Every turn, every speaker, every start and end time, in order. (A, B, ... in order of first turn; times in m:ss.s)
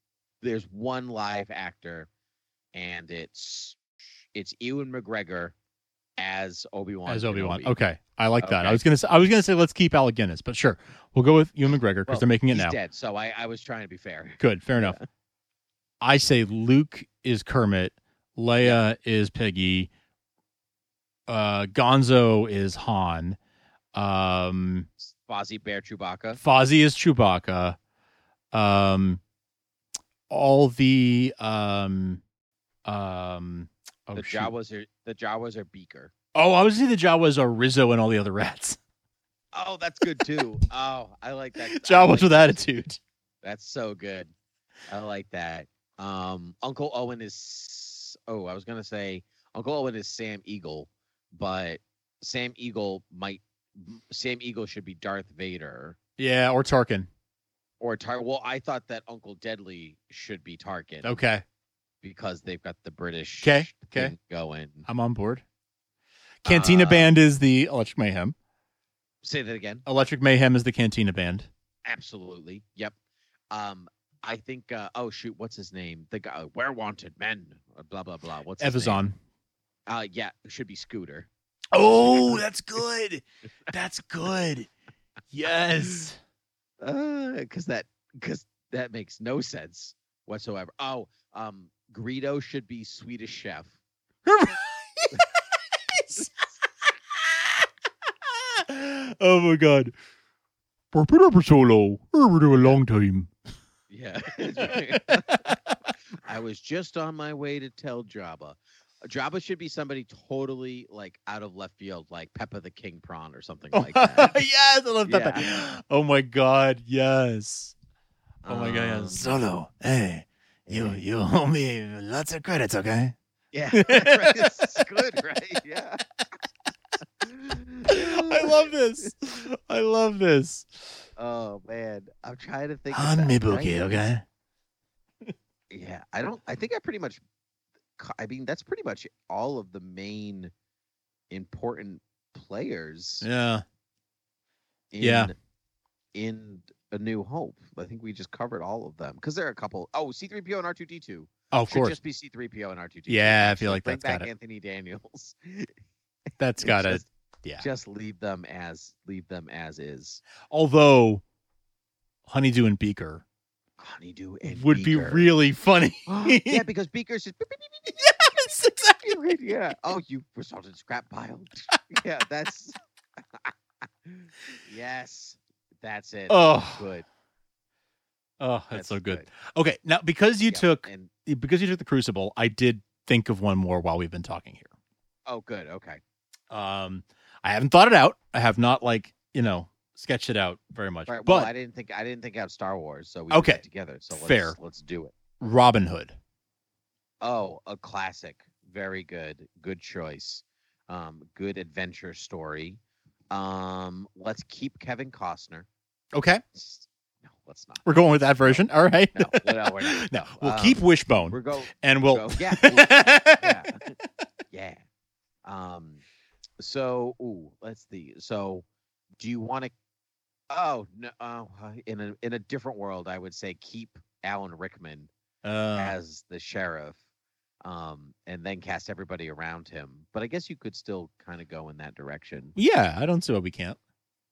0:00.4-0:02.1 A
0:02.7-0:03.8 A
0:04.4-0:05.6 A
0:06.2-0:07.8 A
0:07.1-0:12.8 B
0:08.4-0:08.8 A
0:12.1-0:15.0 A
0:14.4-0:15.0 B
0:16.0-0:19.9 B
0:21.3-0:23.4 B
0:23.9-0:24.9 B
0:25.0-0:26.4 A
0:26.4-0:27.8 B
0:28.5-0:29.2 B
0:30.3-0:32.2 B
0:32.8-0:34.5 B
0:34.2-0:36.1 A
0:36.3-0:38.8 B
0:39.5-0:42.7 A
0:41.6-0:43.0 B
0:43.4-0:44.3 A
0:44.9-0:56.0 A
0:56.2-0:57.1 B
0:57.8-1:01.2 A
1:01.0-1:01.4 B
1:02.0-1:04.9 A
1:03.4-1:04.2 B
1:04.9-1:05.4 B
1:06.4-1:08.4 B
1:06.4-1:07.1 A
1:09.2-1:09.8 A
1:09.9-1:11.5 B
1:11.8-1:12.9 A
1:13.5-1:19.0 A
1:18.6-1:19.2 B
1:19.9-1:21.3 A
1:21.7-1:24.7 B
1:21.8-1:22.5 A
1:25.3-1:26.2 B
1:26.8-1:33.8 A
1:34.3-1:36.3 B
1:37.2-1:37.7 B
1:38.3-1:40.0 B
1:40.9-1:43.3 B
1:43.9-1:45.6 A
1:44.5-1:45.6 B
1:46.1-1:54.4 A
1:53.7-1:57.8 B
1:55.0-1:55.5 A
1:58.4-1:59.4 A
1:58.5-2:03.2 B
2:00.7-2:01.0 A
2:03.5-2:06.0 A
2:03.7-2:04.8 B
2:07.2-2:09.1 A
2:07.9-2:11.0 B
2:11.2-2:14.1 A
2:12.9-2:14.2 B
2:15.7-2:17.2 A
2:18.0-2:20.5 A
2:21.3-2:23.3 A
2:23.2-2:23.6 B
2:24.9-2:25.4 A
2:25.0-2:25.3 B
2:26.1-2:35.7 A
2:31.5-2:32.0 B
2:33.1-2:34.3 B
2:36.4-2:37.6 B
2:36.6-2:37.1 A
2:37.6-2:40.2 A
2:40.5-2:41.2 B
2:42.3-2:43.2 B
2:43.8-2:45.4 A
2:44.4-2:46.7 B
2:46.1-2:52.8 A
2:48.1-2:49.0 B
2:54.0-2:57.1 A
2:56.3-2:56.9 B
2:58.4-3:04.7 B
2:58.7-2:59.3 A
3:00.5-3:01.1 A
3:05.3-3:06.0 A
3:06.5-3:11.5 B
3:11.1-3:15.2 A
3:13.3-3:14.6 B
3:15.4-3:16.2 B
3:17.2-3:22.8 A
3:23.3-3:25.7 A
3:26.1-3:26.4 B
3:26.5-3:34.0 A
3:27.8-3:33.7 B
3:34.5-3:34.8 A
3:35.4-3:36.0 A
3:36.6-3:38.6 A
3:39.2-3:39.7 A
3:40.5-3:45.1 A
3:45.4-3:46.0 B
3:45.8-3:47.0 A
3:47.6-3:52.6 A
3:52.6-3:53.8 B